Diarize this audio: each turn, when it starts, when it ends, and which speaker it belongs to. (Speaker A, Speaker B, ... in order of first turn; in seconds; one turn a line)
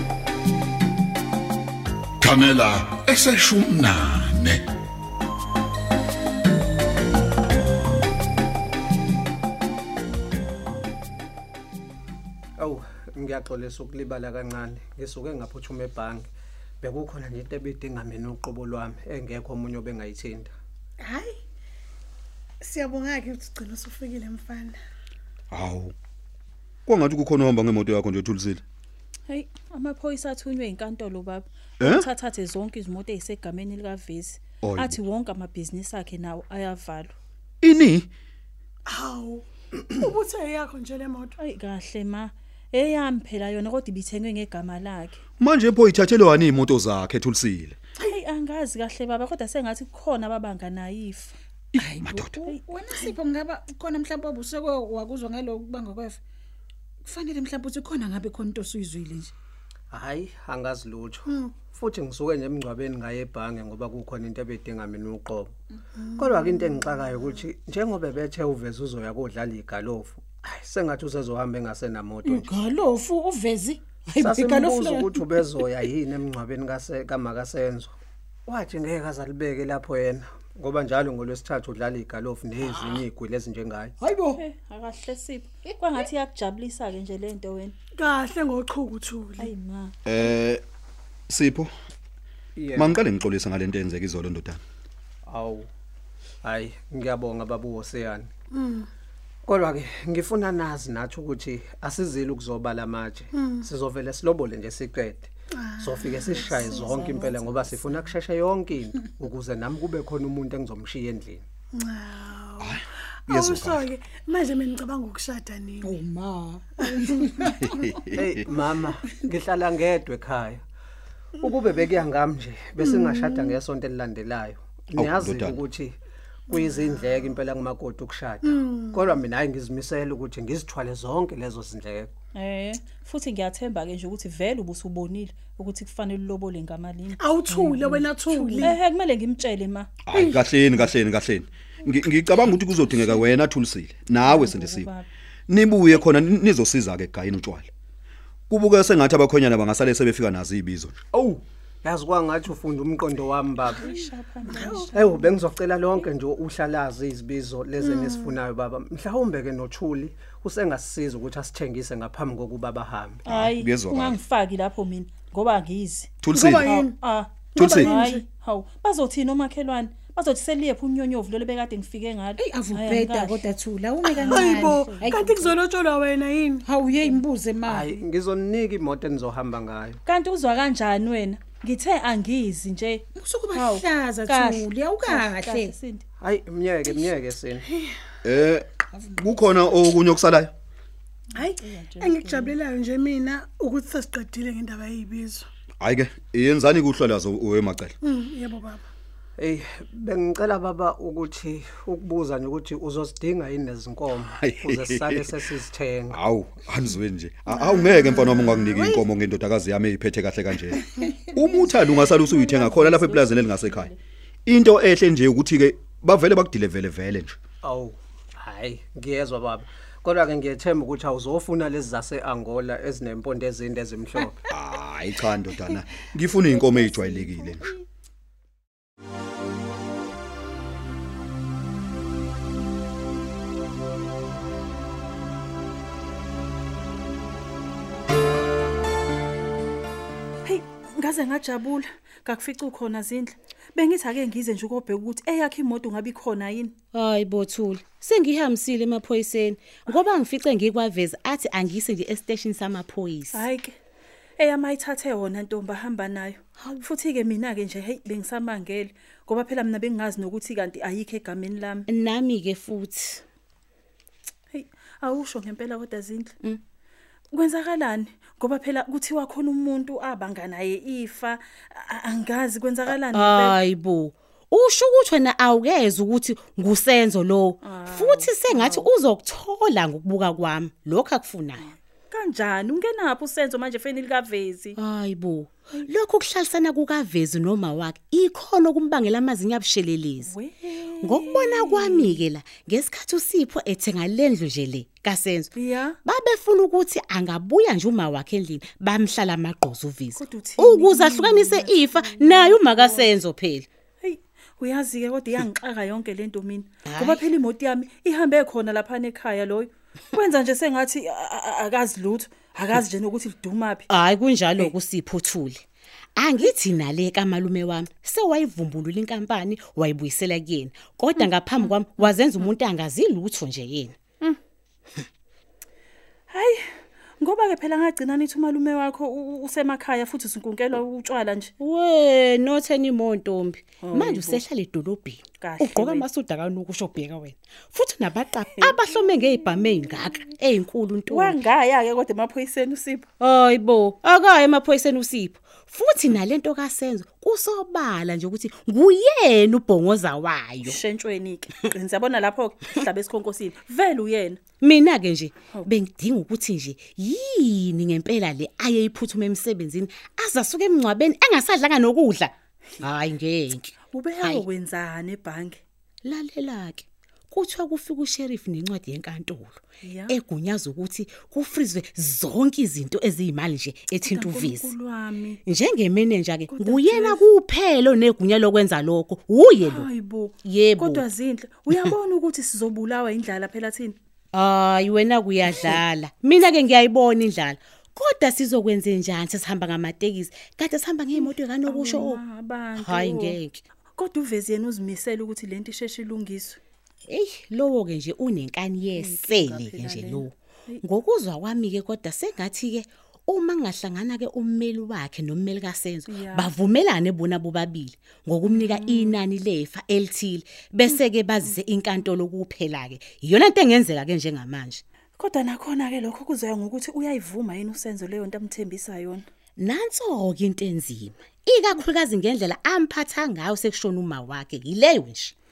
Speaker A: 2.2-4.6
Speaker B: 12.6-16.3
Speaker B: 16.8-20.5
Speaker C: 21.0-21.3
Speaker C: 22.6-24.8
Speaker D: 25.5-25.9
Speaker D: 26.9-28.6
Speaker E: 29.3-37.1
Speaker D: 31.8-32.1
Speaker D: 34.6-35.0
Speaker D: 37.6-38.1
Speaker C: 38.9-39.4
Speaker C: 40.0-41.3
Speaker E: 41.4-45.2
Speaker D: 45.4-47.8
Speaker E: 48.1-51.4
Speaker D: 51.7-52.4
Speaker F: 52.0-56.2
Speaker E: 52.4-53.2
Speaker F: 57.1-59.3
Speaker B: 59.9-65.5
Speaker B: 66.1-72.5
Speaker B: 74.2-77.9
Speaker F: 74.3-75.1
Speaker B: 78.5-83.9
Speaker E: 84.3-87.7
Speaker C: 88.0-89.5
Speaker E: 89.4-89.9
Speaker D: 90.0-90.6
Speaker D: 91.3-91.7
Speaker B: 92.5-92.9
Speaker D: 92.7-94.6
Speaker B: 95.3-95.7
Speaker B: 96.4-98.3
Speaker C: 98.6-98.8
Speaker B: 99.5-111.4
Speaker C: 105.7-107.0
Speaker E: 106.3-108.0
Speaker C: 111.8-112.7
Speaker D: 112.6-113.9
Speaker C: 113.3-116.0
Speaker F: 115.8-117.3
Speaker C: 116.8-117.5
Speaker B: 118.1-120.6
Speaker B: 121.4-126.0
Speaker D: 125.0-125.6
Speaker B: 126.5-132.1
Speaker E: 132.3-139.9
Speaker C: 137.2-138.8
Speaker D: 140.1-144.9
Speaker E: 144.2-145.1
Speaker D: 145.5-147.7
Speaker D: 148.5-151.0
Speaker B: 151.1-154.0
Speaker E: 153.7-155.1
Speaker C: 154.5-154.8
Speaker B: 154.8-163.2
Speaker C: 158.0-158.2
Speaker E: 163.2-173.4
Speaker D: 163.3-164.2
Speaker D: 166.2-166.8
Speaker C: 166.3-167.0
Speaker C: 167.5-168.2
Speaker D: 167.5-168.0
Speaker G: 172.4-175.5
Speaker E: 174.1-175.3
Speaker C: 174.3-176.6
Speaker F: 176.7-177.9
Speaker B: 177.7-180.0
Speaker E: 180.1-186.0
Speaker F: 183.2-185.0
Speaker B: 186.2-187.7
Speaker D: 188.2-190.5
Speaker E: 191.4-192.6
Speaker C: 191.4-195.5
Speaker D: 195.8-197.9
Speaker C: 198.0-198.8
Speaker B: 199.4-206.2
Speaker D: 204.3-205.3
Speaker D: 206.1-213.9
Speaker E: 212.2-213.9
Speaker D: 214.4-217.4
Speaker B: 217.6-224.4
Speaker D: 224.5-227.7
Speaker E: 240.4-246.7
Speaker G: 246.9-253.4
Speaker E: 253.3-253.8
Speaker E: 254.4-261.9
Speaker G: 256.6-256.8
Speaker G: 261.9-263.2
Speaker E: 264.5-266.3
Speaker E: 267.3-273.6
Speaker G: 272.9-281.6
Speaker E: 277.6-278.9
Speaker E: 281.6-284.8
Speaker G: 284.8-290.3
Speaker E: 290.2-292.2
Speaker G: 291.0-295.5
Speaker E: 295.5-296.0
Speaker G: 296.0-303.7
Speaker E: 300.1-303.1
Speaker E: 304.0-313.9
Speaker G: 306.8-307.2
Speaker G: 313.9-315.6
Speaker G: 316.2-324.0
Speaker E: 321.1-322.1
Speaker E: 326.3-331.5
Speaker G: 331.6-341.4
Speaker E: 333.8-334.4
Speaker E: 335.4-336.1
Speaker E: 338.6-339.6
Speaker E: 341.1-343.1
Speaker G: 343.2-350.8
Speaker E: 350.6-354.4
Speaker G: 354.6-364.4
Speaker E: 363.9-365.6
Speaker G: 366.0-374.7
Speaker E: 369.8-370.2
Speaker E: 374.0-375.4
Speaker G: 375.4-379.9
Speaker E: 376.5-377.2
Speaker E: 379.6-383.9
Speaker G: 380.4-381.1
Speaker G: 384.3-392.2
Speaker E: 385.5-385.8
Speaker E: 391.1-393.4
Speaker G: 392.8-393.6
Speaker E: 394.0-396.6
Speaker G: 397.1-400.3
Speaker E: 398.9-400.8
Speaker G: 400.8-414.8
Speaker E: 406.1-406.5
Speaker E: 408.4-409.2
Speaker E: 410.9-411.6
Speaker E: 415.2-419.2
Speaker G: 419.6-425.3